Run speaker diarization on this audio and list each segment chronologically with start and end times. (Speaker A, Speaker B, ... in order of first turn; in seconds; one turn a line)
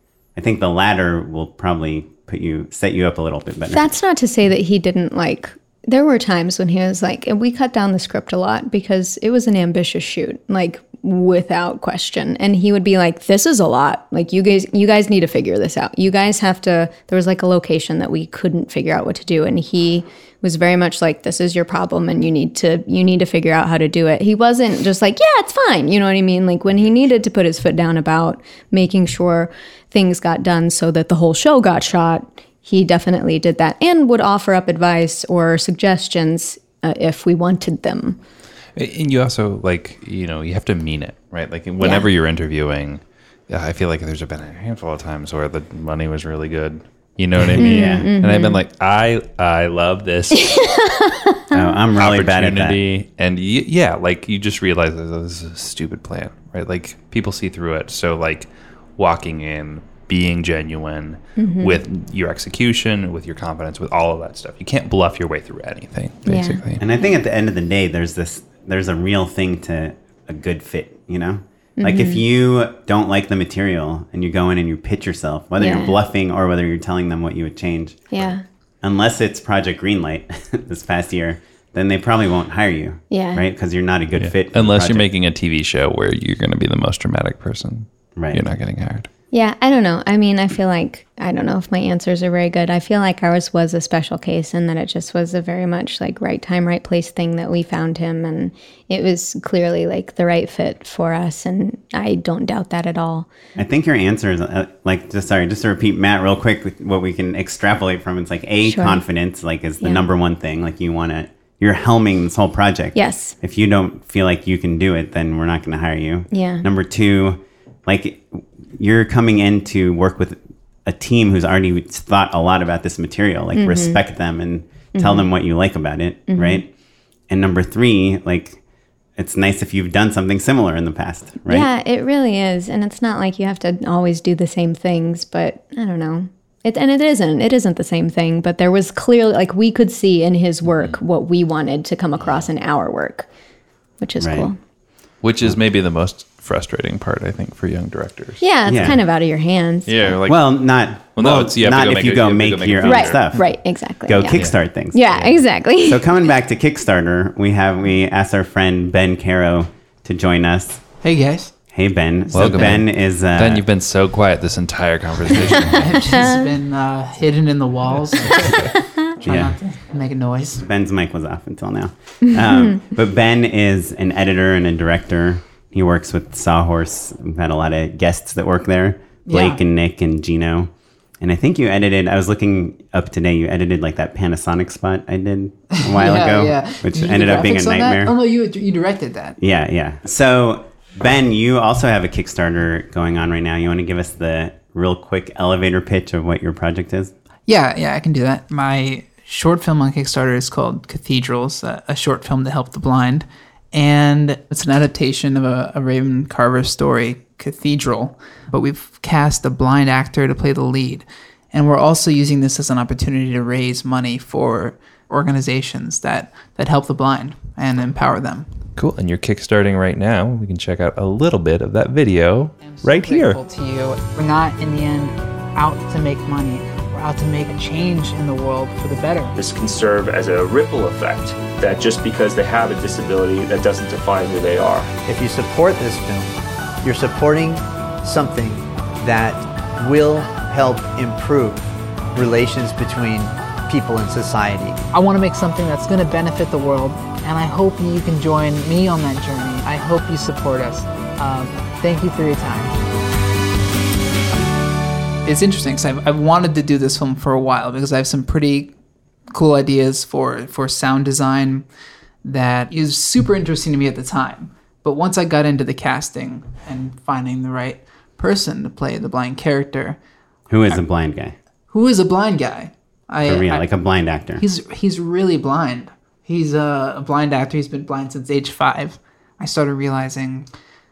Speaker A: 0.4-3.9
Speaker B: 3.7-38.2
Speaker C: 38.8-50.5
Speaker B: 41.8-42.1
Speaker A: 47.4-48.1
Speaker B: 47.6-48.6
Speaker B: 50.3-51.8
Speaker A: 51.5-52.8
Speaker C: 52.0-66.8
Speaker B: 61.4-61.8
Speaker B: 66.2-67.1
Speaker A: 66.8-78.3
Speaker B: 71.8-72.2
Speaker B: 75.6-76.0
Speaker B: 78.1-78.4
Speaker A: 78.8-85.1
Speaker B: 83.1-83.4
Speaker C: 84.2-89.1
Speaker A: 88.2-88.4
Speaker B: 89.3-103.3
Speaker A: 103.6-126.7
Speaker B: 108.6-109.0
Speaker B: 109.8-110.1
Speaker B: 112.9-113.3
Speaker B: 116.3-116.7
Speaker B: 123.5-124.0
Speaker B: 125.0-125.3
Speaker B: 126.3-126.6
Speaker A: 127.3-128.6
Speaker A: 129.2-131.7
Speaker B: 131.5-143.3
Speaker B: 144.0-144.6
Speaker A: 144.2-144.5
Speaker C: 145.2-148.4
Speaker B: 148.4-150.2
Speaker A: 148.7-149.0
Speaker C: 149.9-150.4
Speaker A: 150.3-153.6
Speaker C: 151.2-153.2
Speaker B: 152.8-156.0
Speaker A: 154.1-160.9
Speaker D: 161.0-161.5
Speaker A: 161.7-163.7
Speaker C: 162.3-166.2
Speaker D: 165.8-170.6
Speaker A: 169.2-169.5
Speaker A: 170.6-188.1
Speaker B: 172.5-172.8
Speaker D: 179.2-179.6
Speaker D: 185.7-189.4
Speaker A: 189.4-197.1
Speaker D: 197.5-218.6
Speaker C: 218.8-223.4
Speaker D: 222.7-229.3
Speaker E: 229.3-234.9
Speaker F: 235.1-244.8
Speaker D: 244.9-252.8
Speaker D: 255.2-258.7
Speaker D: 259.3-261.7
Speaker D: 262.2-270.0
Speaker A: 270.5-271.4
Speaker D: 271.7-273.6
Speaker A: 273.2-274.4
Speaker D: 274.4-280.5